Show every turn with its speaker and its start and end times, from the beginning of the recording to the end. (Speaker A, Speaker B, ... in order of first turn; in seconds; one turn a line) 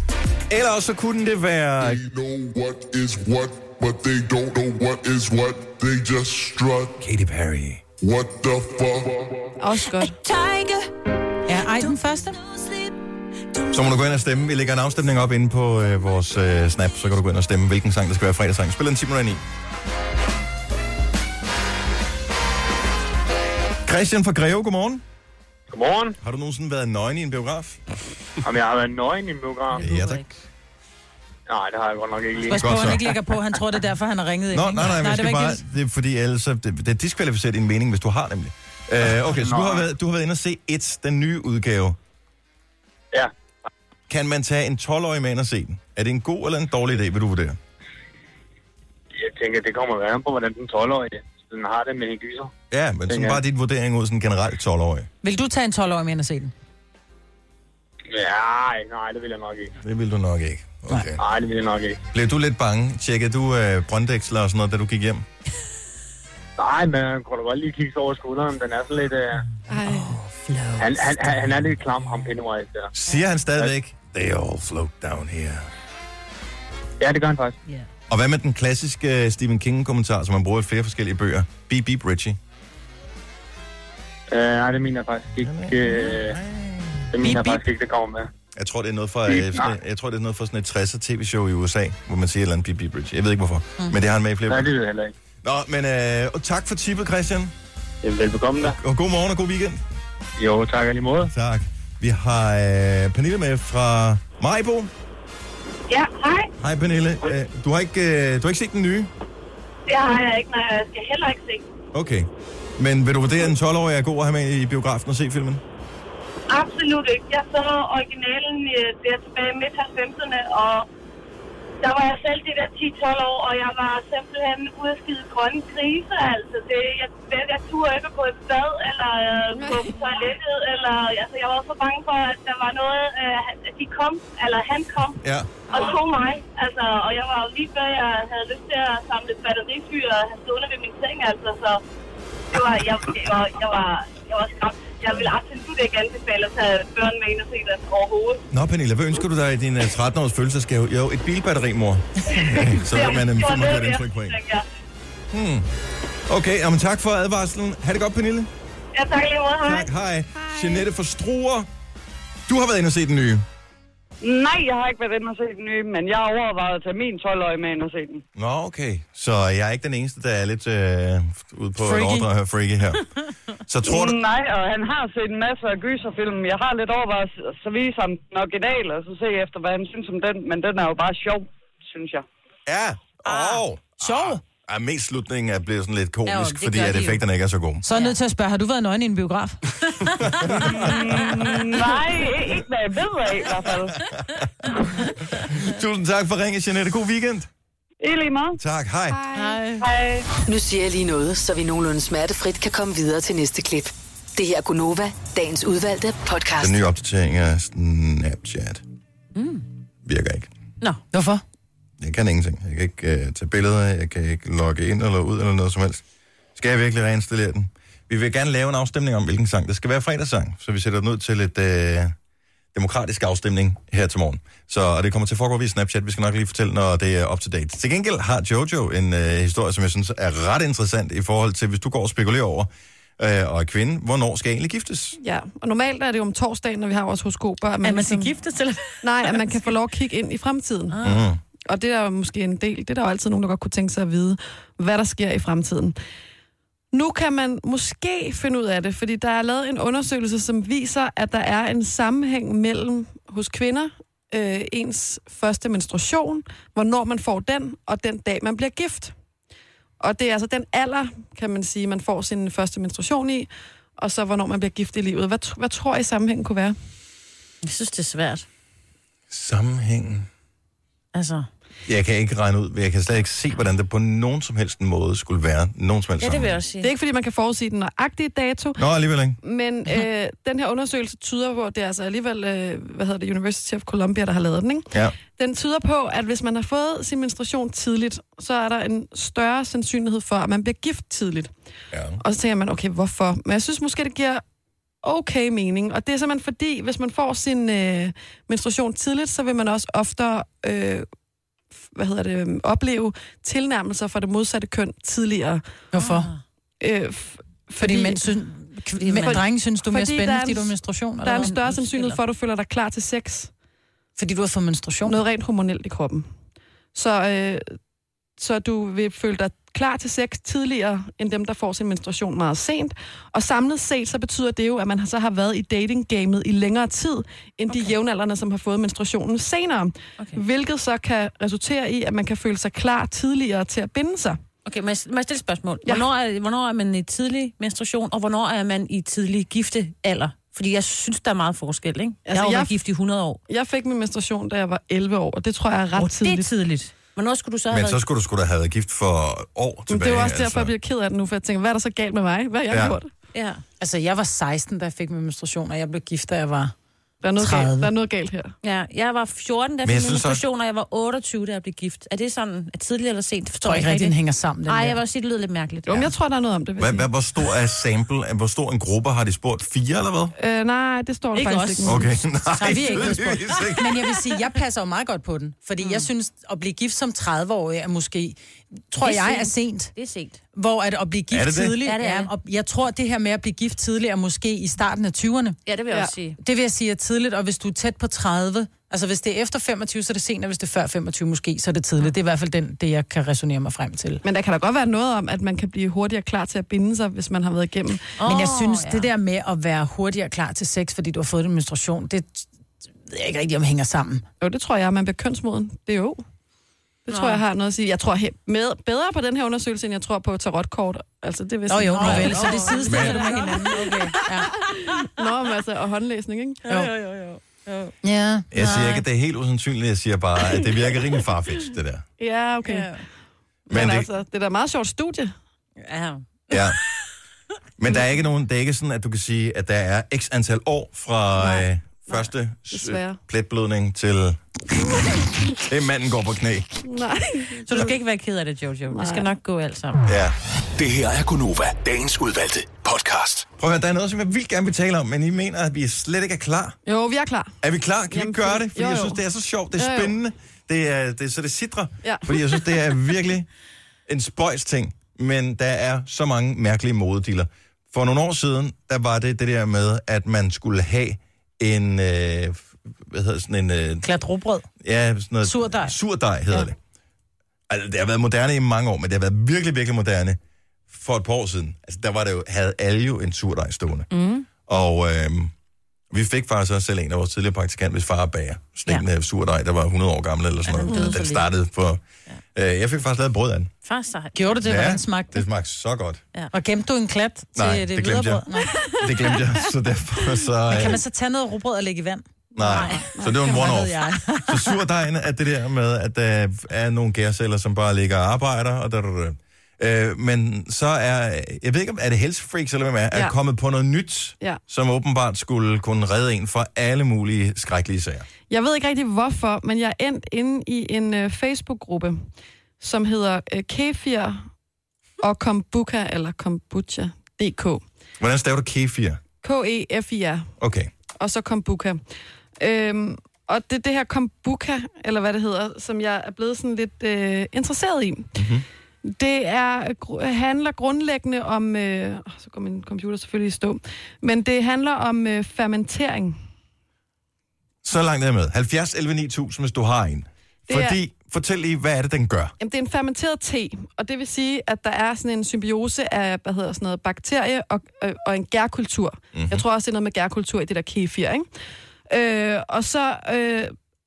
Speaker A: 0.5-2.0
Speaker B: 1.8-7.0
Speaker A: 7.0-7.8
Speaker B: 8.0-9.6
Speaker C: 9.6-10.2
Speaker D: 10.3-10.8
Speaker E: 11.4-12.4
Speaker D: 11.7-12.9
Speaker D: 13.5-13.8
Speaker A: 13.7-19.4
Speaker A: 23.8-25.0
Speaker F: 25.7-26.2
Speaker A: 26.2-27.8
Speaker F: 28.4-29.8
Speaker G: 29.7-30.3
Speaker A: 29.8-30.3
Speaker F: 31.5-33.0
Speaker E: 32.5-35.6
Speaker A: 32.5-33.0
Speaker A: 34.5-42.0
Speaker F: 39.2-39.8
Speaker A: 44.1-47.6
Speaker F: 49.2-52.5
Speaker A: 52.7-55.1
Speaker F: 53.1-53.4
Speaker E: 55.2-56.5
Speaker F: 58.1-59.7
Speaker A: 59.8-61.2
Speaker F: 61.2-62.0
Speaker A: 62.1-65.2
Speaker F: 66.6-69.4
Speaker C: 69.7-70.1
Speaker F: 70.8-72.9
Speaker A: 72.9-75.7
Speaker F: 77.0-77.5
Speaker A: 78.1-82.4
Speaker F: 84.3-86.4
Speaker A: 85.4-87.2
Speaker F: 87.1-88.3
Speaker E: 87.2-87.6
Speaker A: 88.5-94.7
Speaker F: 89.3-89.7
Speaker F: 94.5-95.1
Speaker A: 95.4-97.5
Speaker F: 98.0-98.8
Speaker A: 98.6-99.8
Speaker F: 100.4-101.3
Speaker A: 101.3-104.9
Speaker H: 105.9-106.5
Speaker A: 106.6-109.1
Speaker H: 109.9-111.6
Speaker A: 111.9-115.6
Speaker H: 116.5-120.9
Speaker H: 121.8-135.2
Speaker C: 129.5-130.0
Speaker A: 135.2-135.5
Speaker H: 135.7-141.8
Speaker H: 142.5-148.4
Speaker A: 148.5-154.4
Speaker H: 152.3-154.6
Speaker A: 155.3-155.7
Speaker A: 156.3-158.5
Speaker H: 158.9-159.9
Speaker A: 159.6-161.7
Speaker A: 162.5-163.4
Speaker I: 164.2-168.2
Speaker A: 168.3-173.0
Speaker E: 171.8-172.2
Speaker A: 173.7-174.2
Speaker I: 173.8-182.2
Speaker A: 182.7-187.8
Speaker E: 184.0-184.4
Speaker G: 186.2-187.2
Speaker E: 187.8-190.2
Speaker G: 187.9-188.2
Speaker A: 190.4-191.3
Speaker I: 190.6-194.0
Speaker A: 193.6-197.5
Speaker I: 198.0-198.6
Speaker A: 198.6-199.2
Speaker C: 199.1-199.6
Speaker G: 199.4-199.7
Speaker E: 199.4-199.7
Speaker I: 199.8-200.2
Speaker D: 200.4-206.8
Speaker A: 206.6-208.8
Speaker G: 209.3-209.6
Speaker A: 210.0-210.5
Speaker E: 211.1-211.4
Speaker A: 212.0-216.0
Speaker A: 216.6-222.1
Speaker A: 222.7-235.2
Speaker C: 235.2-238.3
Speaker G: 237.8-239.7
Speaker C: 239.0-241.0
Speaker G: 240.9-241.2
Speaker A: 241.0-241.4
Speaker C: 241.7-245.9
Speaker C: 246.9-259.1
Speaker C: 260.0-266.8
Speaker G: 267.6-268.4
Speaker A: 269.3-270.3
Speaker G: 271.1-271.5
Speaker A: 271.9-276.6
Speaker G: 276.2-276.9
Speaker C: 276.8-278.8
Speaker A: 278.8-279.4
Speaker C: 279.4-291.5
Speaker A: 291.9-292.2
Speaker C: 292.2-294.4
Speaker C: 295.0-301.1
Speaker C: 301.9-305.6
Speaker E: 305.9-306.3
Speaker G: 306.0-306.4
Speaker C: 306.8-308.3
Speaker E: 307.8-311.5
Speaker G: 309.0-309.4
Speaker C: 309.2-313.5
Speaker G: 311.3-312.2
Speaker E: 314.2-315.2
Speaker C: 315.0-316.3
Speaker C: 316.9-317.7
Speaker C: 318.4-334.4
Speaker G: 334.6-343.4
Speaker C: 342.2-342.8
Speaker C: 343.5-346.5
Speaker G: 345.9-348.0
Speaker A: 347.7-350.7
Speaker C: 349.9-353.1
Speaker A: 352.7-353.0
Speaker G: 353.3-353.6
Speaker E: 353.8-356.7
Speaker C: 357.2-358.5
Speaker E: 357.4-357.9
Speaker G: 358.6-364.1
Speaker A: 359.8-360.4
Speaker E: 363.6-365.0
Speaker G: 364.7-366.1
Speaker C: 365.9-367.1
Speaker A: 366.8-370.3
Speaker C: 370.4-372.1
Speaker G: 371.3-372.1
Speaker A: 371.8-373.9
Speaker E: 372.6-378.4
Speaker G: 372.7-373.2
Speaker G: 375.8-376.1
Speaker E: 378.9-379.9
Speaker G: 379.0-380.4
Speaker E: 380.5-385.6
Speaker A: 381.3-381.8
Speaker G: 381.8-382.3
Speaker G: 385.6-386.4
Speaker E: 386.4-394.2
Speaker C: 394.2-398.1
Speaker G: 398.2-399.1
Speaker E: 398.2-402.5
Speaker E: 403.0-404.2
Speaker C: 404.4-406.2
Speaker C: 407.1-412.9
Speaker G: 407.1-407.4
Speaker E: 411.7-414.5
Speaker G: 412.0-415.1
Speaker A: 412.9-413.3
Speaker C: 414.5-416.6
Speaker G: 416.6-417.9
Speaker E: 418.0-419.0
Speaker A: 418.5-422.0
Speaker C: 422.2-422.9
Speaker G: 422.6-423.0
Speaker C: 423.7-425.3
Speaker A: 423.7-424.1
Speaker G: 425.8-426.7
Speaker A: 426.5-426.8
Speaker A: 427.8-435.0
Speaker C: 432.7-433.2
Speaker A: 435.5-436.8
Speaker C: 436.8-437.9
Speaker G: 437.6-440.0
Speaker C: 438.9-439.3
Speaker A: 440.1-440.3
Speaker J: 440.8-443.5
Speaker A: 443.6-446.8
Speaker C: 446.9-447.5
Speaker A: 447.6-453.5
Speaker C: 448.1-449.2
Speaker C: 449.7-450.1
Speaker C: 452.0-452.3
Speaker A: 454.1-464.1
Speaker E: 464.0-464.7
Speaker A: 464.8-466.8
Speaker E: 465.4-465.9
Speaker A: 467.7-470.4
Speaker A: 470.9-474.1
Speaker G: 474.1-474.4
Speaker A: 474.7-475.5
Speaker A: 476.1-482.0
Speaker G: 480.6-481.5
Speaker C: 480.9-481.1
Speaker A: 482.5-483.7
Speaker G: 483.8-484.6
Speaker E: 484.3-485.4
Speaker A: 484.6-486.2
Speaker E: 486.5-488.7
Speaker A: 487.5-491.0
Speaker C: 488.7-489.4
Speaker E: 490.7-492.2
Speaker A: 492.6-508.3
Speaker C: 492.6-493.7
Speaker G: 492.6-493.1
Speaker E: 493.3-494.7
Speaker C: 508.5-512.2
Speaker C: 512.8-514.5
Speaker C: 515.2-517.8
Speaker A: 518.2-519.2
Speaker C: 519.4-520.5
Speaker A: 520.6-520.9
Speaker C: 521.1-522.0
Speaker C: 522.6-528.3
Speaker A: 528.3-528.6
Speaker C: 529.0-536.4
Speaker A: 537.8-542.5
Speaker C: 540.7-541.0
Speaker C: 542.6-551.5
Speaker A: 549.3-549.6
Speaker C: 552.1-553.7